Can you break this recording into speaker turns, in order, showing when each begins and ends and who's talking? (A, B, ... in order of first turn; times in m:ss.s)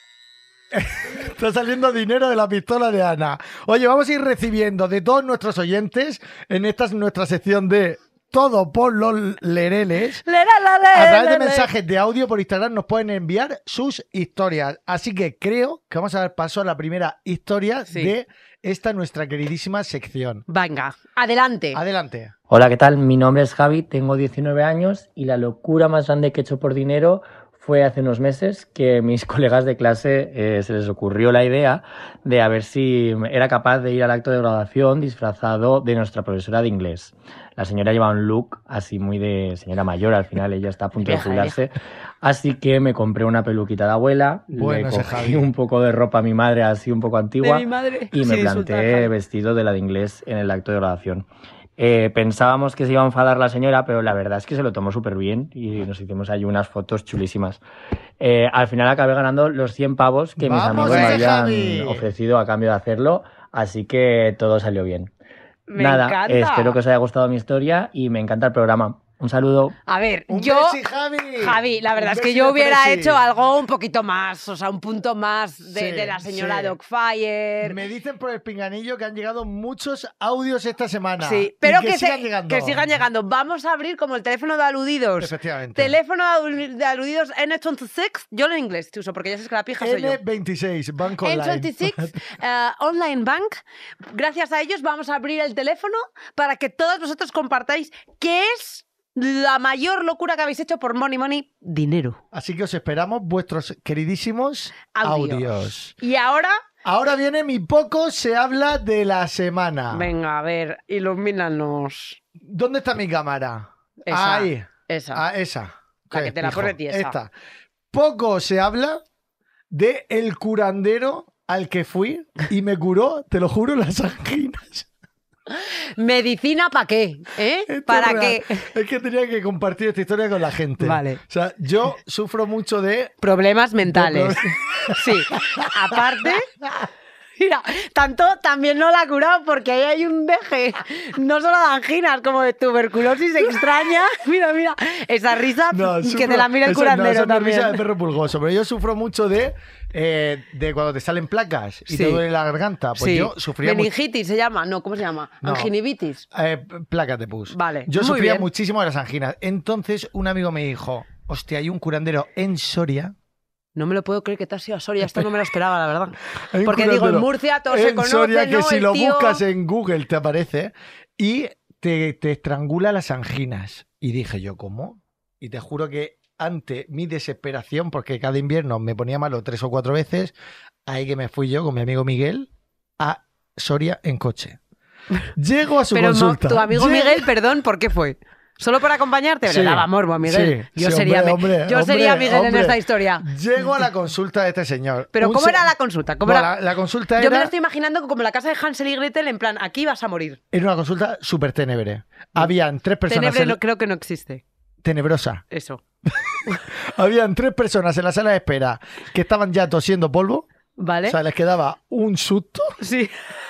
0:00.7-0:10.2 A
0:10.3-0:11.7 B
0:10.9-0:20.4 A
0:20.5-0:21.8 B
0:21.7-0:22.3 A
0:22.5-0:51.3 C
0:41.0-0:41.6 B
0:44.5-0:45.5 A
0:47.4-0:49.1 B
0:51.8-0:57.6 C
0:58.2-1:05.1 C
1:00.4-1:02.1 A
1:00.8-1:01.2 B
1:05.7-1:06.8 B
1:05.8-1:09.8 C
1:09.9-1:10.8 B
1:10.3-1:13.2 A
1:11.4-1:17.8 B
1:15.7-1:16.8 A
1:17.6-1:23.0 A
1:21.2-1:30.2 B
1:25.2-1:26.0 A
1:29.8-1:32.2 A
1:31.2-1:42.2 B
1:42.3-1:45.9 A
1:44.9-1:46.6 B
1:46.8-1:50.1 A
1:49.9-1:52.2 B
1:52.4-1:57.3 A
1:54.1-1:55.2 B
1:56.1-1:57.2 B
1:57.9-1:59.0 A
1:59.7-2:04.9 A
2:05.5-2:08.7 B
2:07.7-2:13.1 A
2:10.8-2:11.2 B
2:13.2-2:16.5 B
2:13.8-2:16.9 A
2:17.4-2:27.8 B
2:25.7-2:33.9 A
2:31.9-2:32.2 B
2:33.0-2:36.2 B
2:35.4-2:35.7 A
2:36.3-2:43.2 A
2:37.5-2:38.5 B
2:43.8-2:49.4 B
2:46.5-3:00.4 A
3:00.9-3:04.6 A
3:05.4-3:07.2 A
3:05.9-3:13.3 B
3:09.5-3:15.7 A
3:15.2-3:16.5 B
3:16.2-3:17.5 A
3:17.2-3:20.4 B
3:20.5-3:23.6 A
3:23.1-3:24.4 B
3:24.8-3:25.4 A
3:25.5-3:25.8 B
3:26.1-3:30.5 A
3:30.8-3:31.2 B
3:31.0-3:32.8 A
3:32.8-3:33.1 B